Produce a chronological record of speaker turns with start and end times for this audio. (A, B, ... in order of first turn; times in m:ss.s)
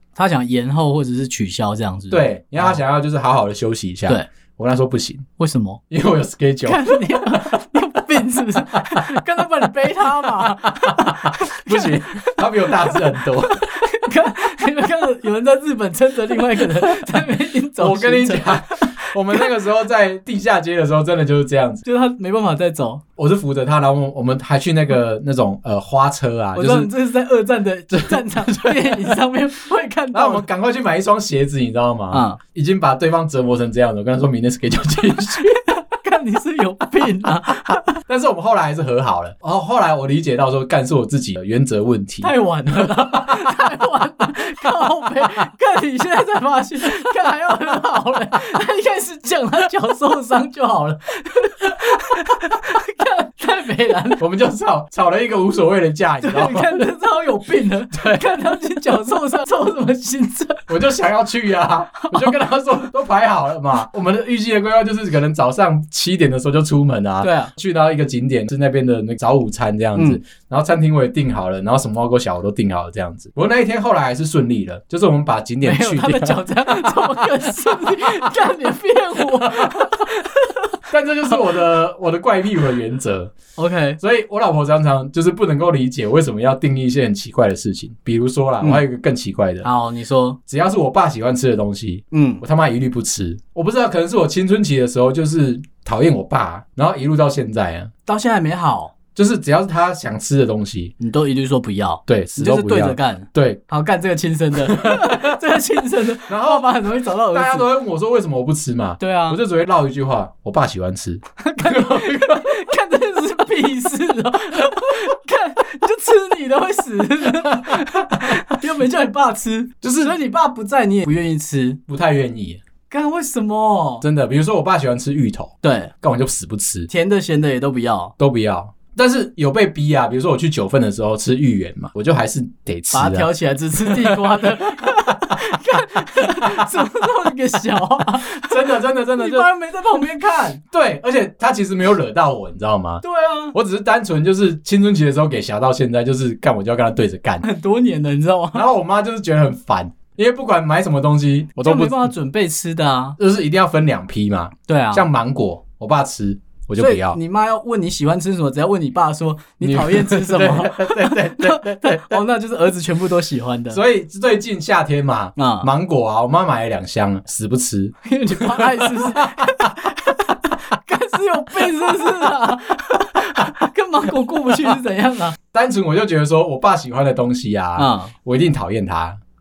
0:00.2-0:02.8 A
0:02.1-0:05.3 B
0:05.4-0:05.8 A
0:05.9-0:07.6 B
0:06.6-0:19.6 A
0:08.7-0:09.2 B
0:10.7-0:13.8 B
0:17.8-0:21.8 B
0:21.8-0:23.0 A
0:23.2-0:26.9 B
0:26.5-0:30.5 A
0:27.9-0:29.2 B
0:30.1-0:35.7 B
0:32.1-0:32.4 A
0:35.7-0:38.0 A
0:38.1-0:43.2 B
0:42.2-0:54.2 A
0:54.2-0:56.9 B
0:56.2-1:00.7 A
0:57.9-0:58.2 B
1:00.7-1:18.3 B
1:02.0-1:02.4 A
1:07.2-1:07.5 A
1:15.6-1:20.8 A
1:19.2-1:19.9 B
1:20.9-1:23.4 B
1:23.6-1:24.0 A
1:24.0-1:29.7 B
1:29.6-1:30.4 A
1:30.5-1:37.9 B
1:32.1-1:32.4 A
1:38.0-1:38.9 A
1:39.1-1:40.9 B
1:41.0-1:47.7 A
1:42.1-1:43.6 B
1:44.7-1:45.4 B
1:46.3-1:52.6 B
1:49.0-1:49.4 A
1:51.4-2:01.8 A
1:57.5-1:58.3 B
1:59.8-2:00.2 B
2:01.9-2:02.6 B
2:02.9-2:04.0 A
2:04.0-2:06.9 B
2:05.6-2:05.9 A
2:06.9-2:08.1 A
2:08.2-2:17.1 B
2:12.9-2:20.6 A
2:18.2-2:19.5 B
2:20.7-2:27.4 B
2:23.0-2:23.5 A
2:27.4-2:28.6 A
2:28.5-2:32.1 B
2:31.6-2:33.2 A
2:33.2-2:37.2 B
2:34.7-2:35.0 A
2:36.8-2:43.8 A
2:39.6-2:42.2 B
2:43.7-2:49.7 B
2:45.4-2:45.7 A
2:48.0-2:55.4 A
2:55.5-2:59.2 B
2:57.8-2:58.1 A